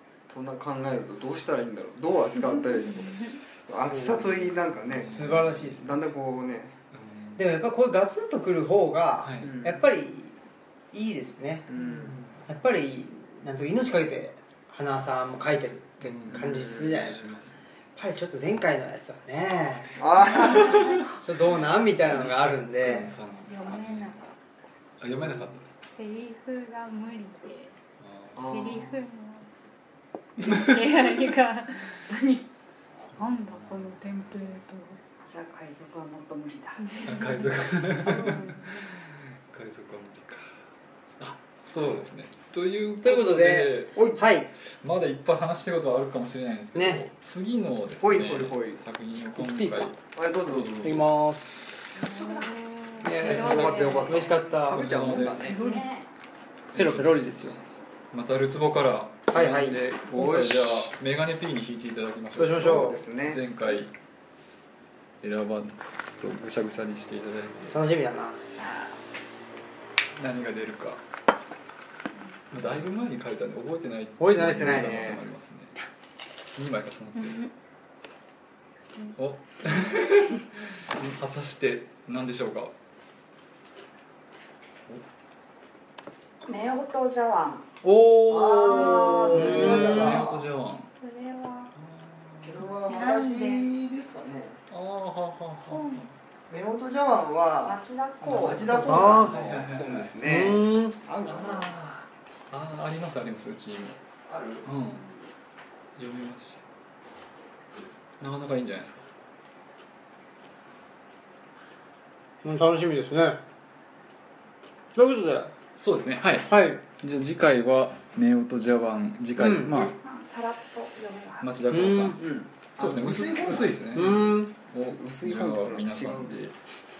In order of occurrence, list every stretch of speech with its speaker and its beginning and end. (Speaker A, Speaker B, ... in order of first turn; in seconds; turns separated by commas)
Speaker A: 0.3-6.8, Speaker B: 3.8-4.3, Speaker C: 4.8-5.9, Speaker B: 5.0-5.9, Speaker C: 6.9-7.4, Speaker B: 7.4-10.4, Speaker C: 9.2-9.5, Speaker A: 9.4-9.8, Speaker B: 10.9-17.3, Speaker A: 11.7-12.2, Speaker C: 12.0-12.4, Speaker C: 16.0-17.6, Speaker A: 16.2-17.1, Speaker B: 17.9-20.6, Speaker A: 19.9-21.0, Speaker B: 21.1-23.1, Speaker C: 22.1-24.2, Speaker D: 23.5-24.2, Speaker C: 25.0-25.7, Speaker D: 25.8-27.7, Speaker C: 28.0-28.4, Speaker A: 28.3-28.9, Speaker D: 28.4-29.5, Speaker D: 30.4-32.5, Speaker D: 33.1-35.0, Speaker C: 33.3-34.0, Speaker E: 35.2-37.1, Speaker D: 36.9-37.4, Speaker C: 37.0-40.6, Speaker D: 38.0-38.8, Speaker E: 38.1-38.6, Speaker C: 41.2-44.1, Speaker B: 43.0-44.5, Speaker C: 44.7-51.1, Speaker B: 46.7-47.0, Speaker A: 48.0-48.8, Speaker B: 49.3-49.9, Speaker A: 50.1-51.0, Speaker B: 50.8-51.8, Speaker E: 51.9-52.9, Speaker D: 52.0-54.3, Speaker B: 53.0-54.9, Speaker C: 53.2-53.9, Speaker A: 53.2-55.6, Speaker E: 53.6-53.9, Speaker C: 54.7-55.6, Speaker E: 55.3-56.1, Speaker D: 55.4-55.9, Speaker C: 56.7-63.9, Speaker B: 56.7-57.6, Speaker B: 59.3-59.8, Speaker A: 60.0-60.9, Speaker B: 62.3-63.0, Speaker A: 62.4-63.4, Speaker C: 65.2-67.8, Speaker B: 67.7-68.4, Speaker C: 70.2-71.0, Speaker C: 72.5-75.7, Speaker B: 74.2-75.1, Speaker A: 74.4-75.3, Speaker C: 76.5-77.5, Speaker C: 79.2-82.7, Speaker E: 86.4-87.7, Speaker B: 87.8-90.2, Speaker A: 88.3-90.5, Speaker C: 88.5-90.9, Speaker D: 91.0-91.7, Speaker E: 91.0-91.7, Speaker C: 91.8-92.6, Speaker A: 92.4-94.6, Speaker D: 92.9-93.2, Speaker E: 93.0-93.6, Speaker C: 94.7-96.1, Speaker D: 95.6-96.0, Speaker A: 96.5-101.7, Speaker E: 97.6-99.2, Speaker C: 98.2-100.1, Speaker B: 98.7-99.4, Speaker B: 100.2-101.0, Speaker C: 101.2-104.0, Speaker A: 104.3-104.7, Speaker C: 104.6-105.0, Speaker C: 106.0-106.6, Speaker C: 108.2-109.1, Speaker B: 112.4-113.4, Speaker B: 114.9-115.5, Speaker C: 115.8-119.9, Speaker B: 116.5-116.8, Speaker B: 119.3-119.8, Speaker E: 119.7-122.0, Speaker C: 121.4-126.5, Speaker B: 121.7-122.2, Speaker A: 122.2-123.8, Speaker B: 123.9-124.5, Speaker A: 124.8-126.3